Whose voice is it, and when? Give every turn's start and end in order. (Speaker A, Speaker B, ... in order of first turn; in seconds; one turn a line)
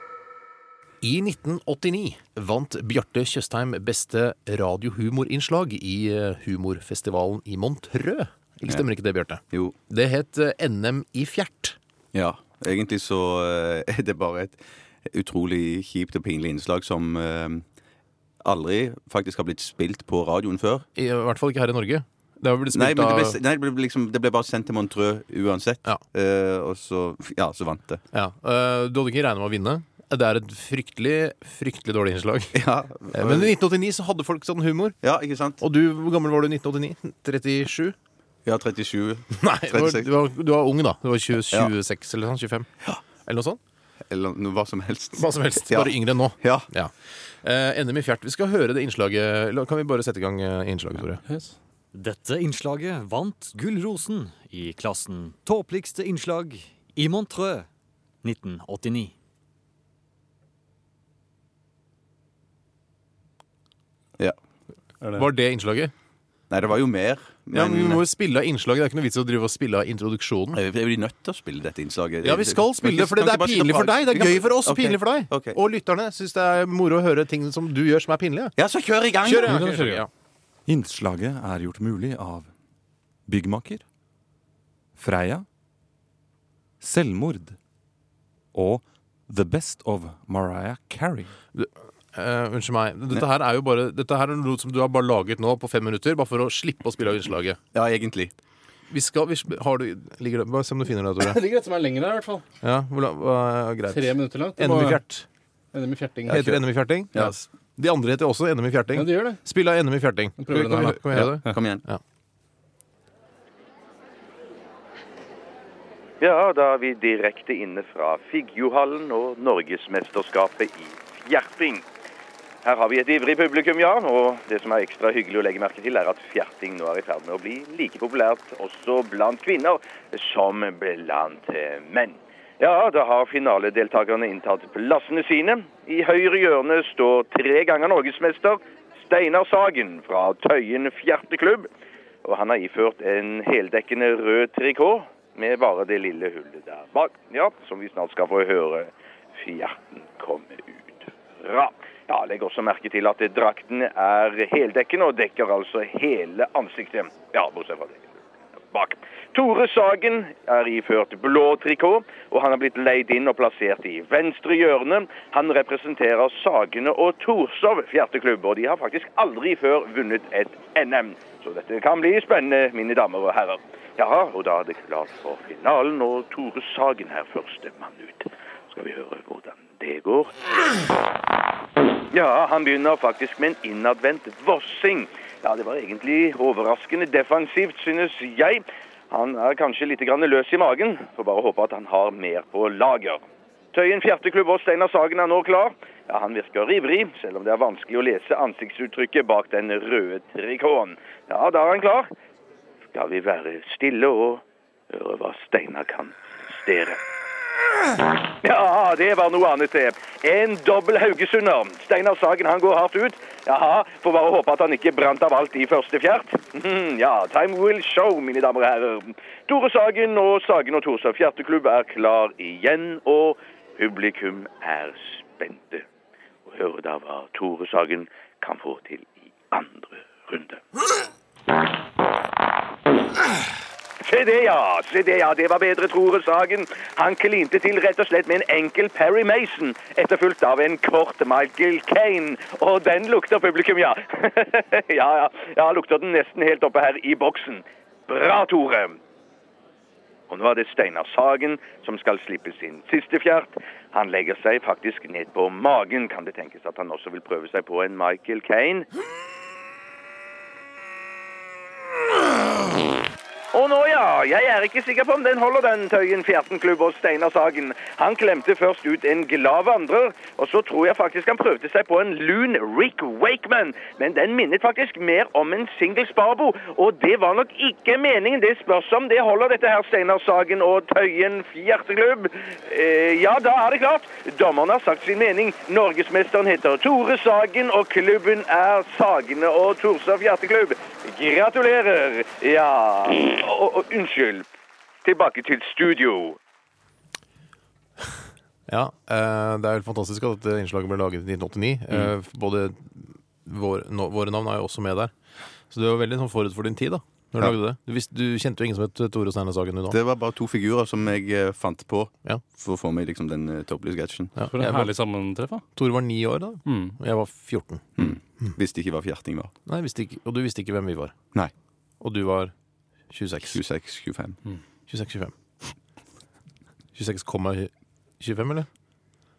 Speaker A: 1.0-11.8
Speaker B: 9.5-9.8
Speaker B: 12.1-17.6
Speaker B: 18.4-20.9
Speaker A: 20.9-23.4
Speaker B: 22.7-28.0
Speaker A: 28.1-32.5
Speaker B: 32.5-33.5
Speaker A: 33.1-35.0
Speaker B: 35.0-35.6
Speaker A: 35.6-38.0
Speaker B: 38.5-40.1
Speaker A: 39.4-43.6
Speaker B: 44.1-46.7
Speaker A: 45.2-51.2
Speaker C: 51.2-51.6
Speaker D: 51.9-57.7
Speaker D: 58.2-59.1
Speaker A: 65.1-65.9
Speaker B: 66.5-68.0
Speaker A: 67.5-70.6
Speaker B: 70.5-75.6
Speaker A: 72.2-78.5
Speaker B: 78.6-79.6
Speaker A: 79.2-80.1
Speaker C: 79.5-80.0
Speaker E: 80.7-82.5
Speaker E: 83.3-83.8
Speaker E: 85.0-85.5
Speaker E: 86.8-87.6
Speaker E: 88.5-91.3
Speaker A: 91.5-97.6
Speaker B: 97.7-98.3
Speaker A: 98.9-101.4
Speaker C: 101.2-102.5
Speaker A: 102.6-105.3
Speaker C: 103.9-105.0
Speaker C: 105.7-106.5
Speaker A: 106.3-112.0
Speaker B: 106.3-107.3
Speaker C: 108.9-109.4
Speaker C: 110.4-111.0
Speaker B: 110.8-111.8
Speaker F: 116.2-121.8
Speaker F: 122.6-141.7
Speaker F: 142.2-158.1
Speaker F: 158.7-180.3
Speaker F: 182.1-202.1
Speaker F: 202.9-207.0
Speaker F: 208.4-225.9
Speaker F: 226.5-230.6
Speaker F: 234.0-249.0
Speaker F: 250.3-258.9
Speaker F: 263.5-294.5
Speaker F: 295.0-296.4
Speaker A: 298.7-305.1
Speaker A: 305.7-310.0
Speaker B: 309.9-314.4
Speaker A: 314.4-314.9
Speaker C: 314.4-315.6
Speaker A: 315.7-318.6
Speaker C: 316.7-316.9
Speaker B: 318.0-319.5
Speaker A: 319.7-321.1
Speaker A: 322.0-322.5
Speaker A: 323.1-323.6
Speaker B: 323.5-324.4
Speaker A: 324.9-325.3
Speaker A: 326.9-328.7